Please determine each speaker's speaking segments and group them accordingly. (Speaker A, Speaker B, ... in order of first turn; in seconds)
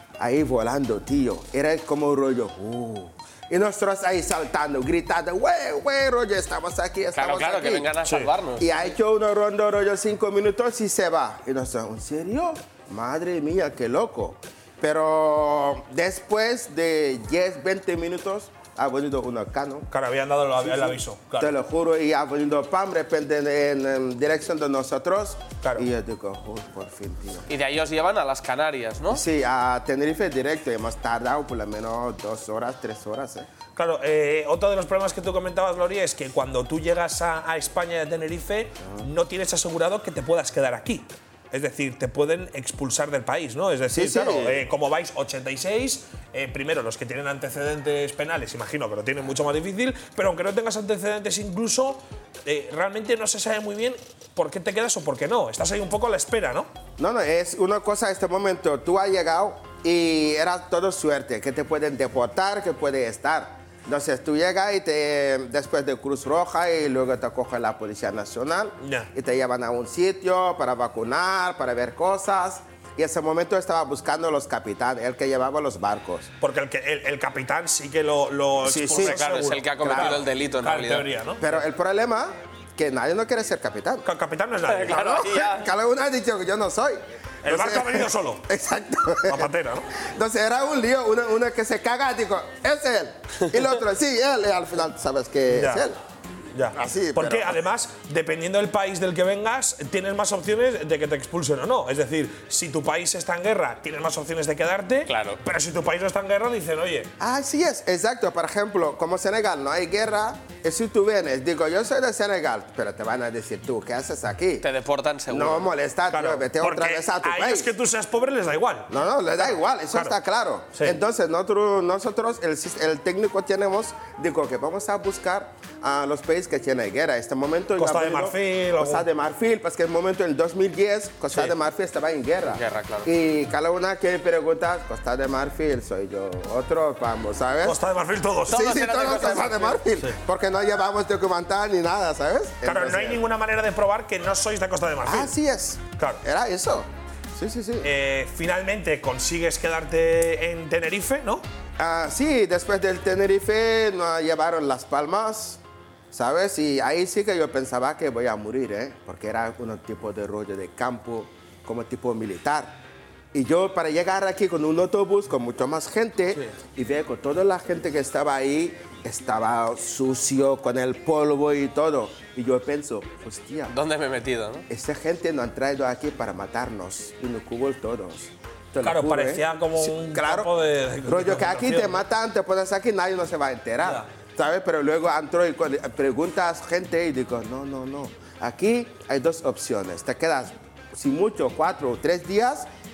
Speaker A: 0.2-7.9, 8.6-19.9, 20.6-27.5, 29.1-33.5, 38.8-39.1, 43.9-44.7, 57.0-76.3, 78.6-79.2, 79.8-80.3, 81.4-84.1, 84.9-96.0, 96.7-97.6, 107.2-114.7, 115.3-117.7, 118.9-137.8, 138.5-143.2, 145.1-147.9, 151.8-162.8, 163.3-173.8, 174.7-192.7
Speaker B: 7.2-8.7, 27.5-29.2, 78.7-81.1, 84.7-85.7, 105.1-105.4, 114.6-115.7, 132.5-133.1, 138.5-139.8, 173.7-174.7
Speaker C: 8.1-8.3, 19.9-21.5, 33.8-56.7, 68.8-69.1, 76.4-81.5, 84.1-85.3, 87.4-88.5, 89.3-89.9, 95.5-95.8, 96.5-107.1, 116.1-118.9, 119.4-120.2, 127.8-129.1, 137.6-138.7, 142.7-145.3, 147.8-151.4, 178.8-182.0